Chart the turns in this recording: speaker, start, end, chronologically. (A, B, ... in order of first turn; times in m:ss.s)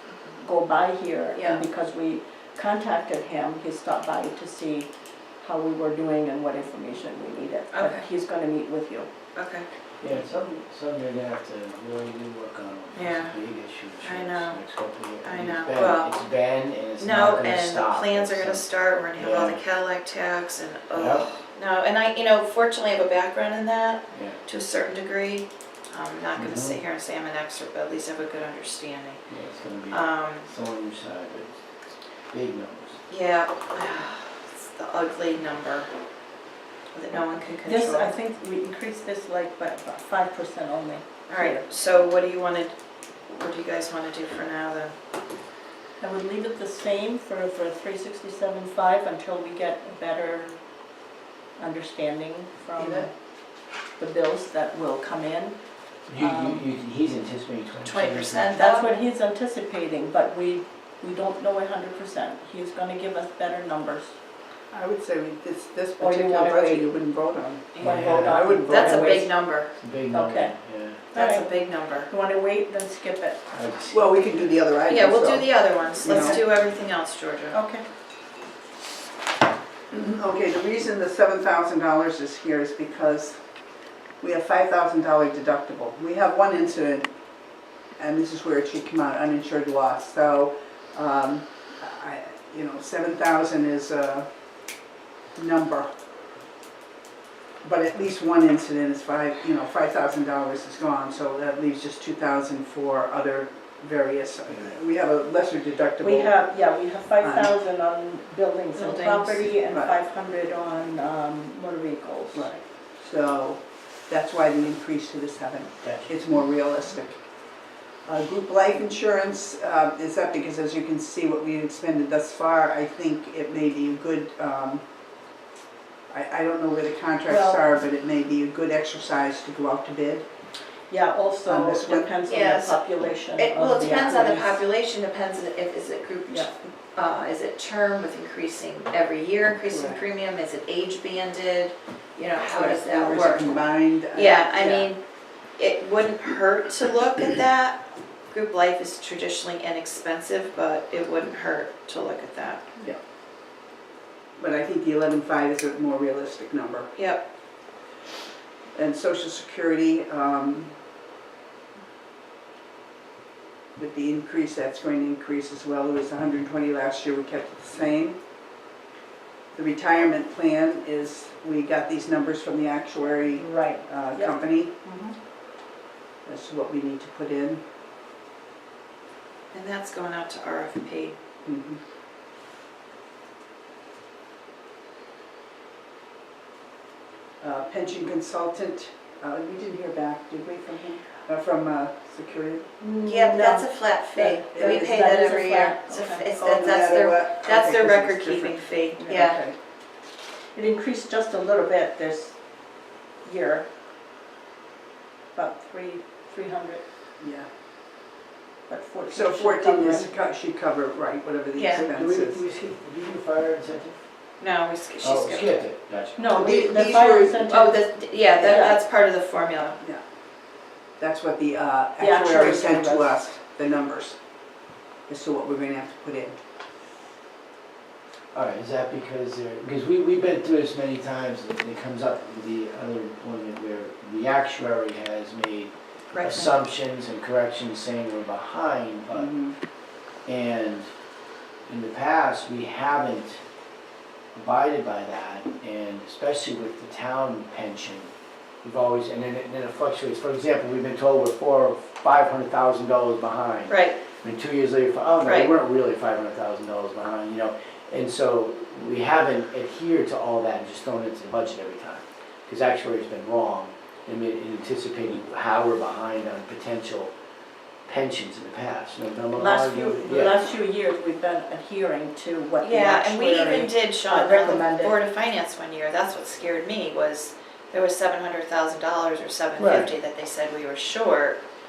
0:00.4-0:09.1 A
0:01.4-0:01.6 B
0:07.7-0:08.1 B
0:09.4-0:09.6 B
0:10.0-0:19.6 C
0:13.0-0:13.4 B
0:14.0-0:14.6 B
0:15.2-0:16.1 B
0:17.0-0:29.2 B
0:20.9-0:21.3 C
0:24.1-0:24.4 C
0:26.4-0:26.8 C
0:29.3-0:31.6 C
0:29.9-0:30.5 B
0:32.3-0:33.0 C
0:33.1-0:35.9 B
0:36.9-0:38.1 B
0:37.6-0:41.7 A
0:41.3-0:42.7 B
0:43.3-0:45.0 B
0:46.0-0:50.6 A
0:51.6-0:53.1 A
0:52.8-0:53.1 D
0:54.0-0:55.6 A
0:56.1-0:58.5 C
0:56.2-0:56.6 A
0:57.8-0:58.9 B
0:58.5-1:04.2 A
1:04.7-1:09.3 D
1:06.0-1:06.9 A
1:07.7-1:09.7 B
1:07.8-1:09.3 A
1:07.8-1:08.5 C
1:09.8-1:11.1 C
1:10.1-1:10.6 A
1:11.1-1:11.4 A
1:11.1-1:12.1 B
1:12.1-1:13.4 A
1:13.5-1:14.6 C
1:13.9-1:16.4 D
1:14.9-1:17.6 B
1:16.0-1:16.4 A
1:17.5-1:17.8 A
1:19.9-1:23.4 D
1:24.2-1:27.1 D
1:28.0-1:34.3 D
1:35.4-1:35.9 D
1:37.6-1:46.4 D
1:46.0-1:52.6 A
1:47.2-1:47.6 D
1:48.8-1:49.5 B
1:49.7-1:50.0 D
1:52.3-1:57.2 D
1:55.8-1:56.1 C
1:58.0-2:04.8 D
2:06.1-2:10.3 D
2:07.3-2:07.6 A
2:10.9-2:14.6 A
2:11.4-2:12.1 D
2:12.2-2:12.8 B
2:13.4-2:25.0 B
2:19.6-2:20.0 D
2:22.4-2:24.9 D
2:25.6-2:32.6 B
2:34.4-2:36.9 D
2:37.0-2:37.2 B
2:38.7-2:40.8 D
2:43.8-2:48.2 D
2:49.5-2:54.8 D
2:53.3-2:55.1 A
2:56.2-2:57.6 D
2:59.5-3:01.2 B
3:01.4-3:01.8 D
3:07.4-3:12.7 D
3:12.8-3:16.2 A
3:13.0-3:19.4 B
3:14.5-3:15.0 D
3:16.4-3:19.6 D
3:20.6-3:22.4 A
3:23.2-3:23.7 A
3:25.4-3:26.8 A
3:27.2-3:27.5 D
3:28.7-3:30.2 A
3:29.1-3:32.4 D
3:31.6-3:31.9 B
3:31.7-3:34.0 C
3:34.4-3:35.6 B
3:35.0-3:36.2 C
3:36.2-3:38.8 A
3:36.3-3:37.5 D
3:37.4-3:39.8 B
3:41.0-3:44.2 D
3:42.0-3:43.2 A
3:45.1-3:46.4 D
3:48.3-3:59.3 C
3:56.1-3:56.6 B
3:59.1-3:59.6 D
4:00.3-4:00.9 C
4:01.7-4:03.4 C
4:04.3-4:08.1 C
4:08.6-4:27.1 C
4:13.7-4:14.0 B
4:15.2-4:15.5 B
4:27.9-4:30.4 C
4:29.4-4:35.0 A
4:32.6-4:41.4 B
4:39.6-4:39.9 C